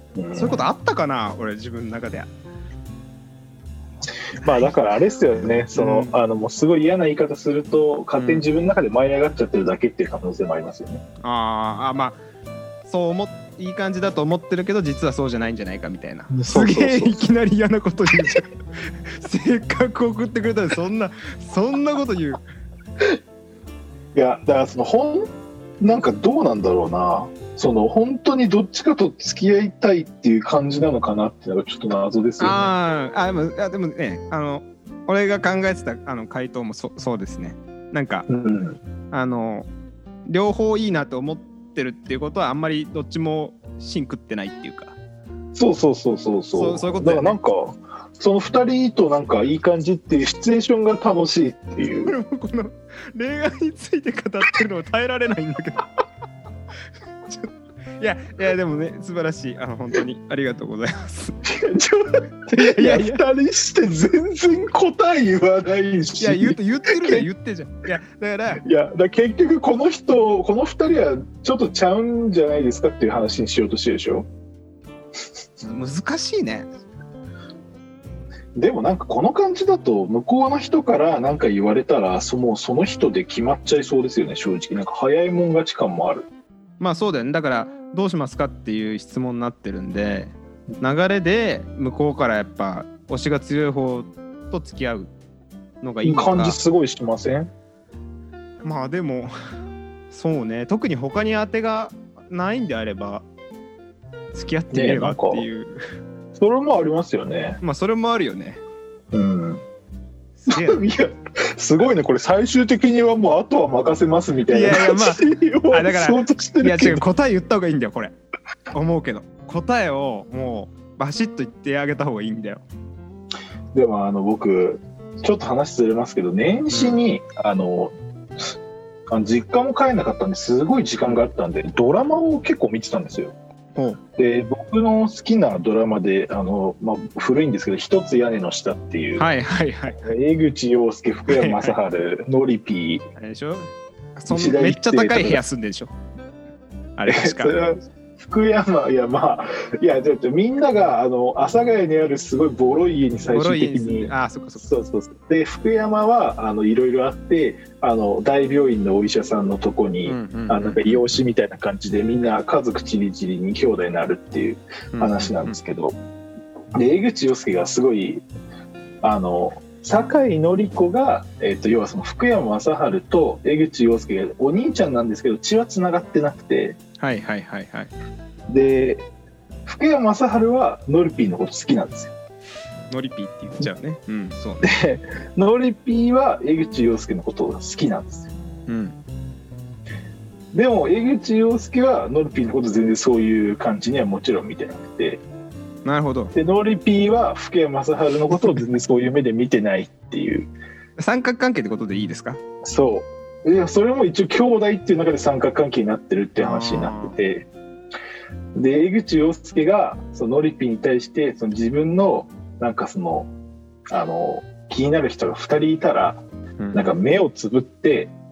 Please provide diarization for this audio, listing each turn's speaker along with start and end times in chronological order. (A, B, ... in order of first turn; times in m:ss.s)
0:00.2-0:00.7 A
0:00.3-0:02.3 B
0:04.4-0:11.0 A
0:05.7-0:06.1 B
0:08.2-0:08.4 B
0:11.2-0:12.2 B
0:12.8-0:22.4 B
0:16.3-0:17.2 A
0:24.2-0:25.3 A
0:25.8-0:32.7 A
0:32.4-0:38.3 B
0:38.3-0:38.8 A
0:39.1-0:39.7 B
0:40.3-0:45.0 B
0:45.5-0:52.1 A
0:46.5-0:47.4 B
0:52.0-0:55.9 B
0:57.3-1:01.4 B
1:01.4-1:07.3 A
1:02.5-1:03.2 B
1:06.2-1:08.6 B
1:08.6-1:14.3 A
1:15.6-1:16.7 B
1:18.6-1:26.3 A
1:26.8-1:35.1 B
1:35.8-1:36.6 B
1:36.0-1:37.5 A
1:38.6-1:39.3 B
1:40.1-1:43.2 B
1:44.3-1:45.8 B
1:44.7-1:45.5 A
1:46.4-1:47.6 A
1:47.6-1:48.6 B
1:49.1-1:49.6 A
1:50.4-1:50.8 B
1:50.5-1:57.0 A
1:54.5-1:58.1 B
1:58.7-2:02.6 B
2:03.7-2:08.5 A
2:06.7-2:07.0 B
2:09.1-2:13.4 A
2:13.8-2:14.0 B
2:14.2-2:19.3 A
2:19.2-2:20.1 B
2:20.0-2:23.0 A
2:21.3-2:21.8 B
2:23.2-2:25.9 B
2:24.3-2:25.4 A
2:27.0-2:27.6 B
2:27.1-2:46.0 A
2:33.3-2:34.7 B
2:40.0-2:41.1 B
2:44.9-2:45.6 B
2:46.8-2:48.2 A
2:49.0-2:56.8 A
2:57.0-2:57.9 B
2:58.5-2:59.1 A
2:59.7-3:02.1 A
3:02.9-3:04.7 B
3:04.6-3:08.3 A
3:08.7-3:09.0 B
3:10.5-3:15.2 A
3:15.8-3:16.3 B
3:16.3-3:20.5 A
3:21.0-3:22.4 B
3:22.6-3:27.5 A
3:26.4-3:27.2 B
3:28.6-3:33.3 A
3:33.9-3:38.1 A
3:36.6-3:37.0 B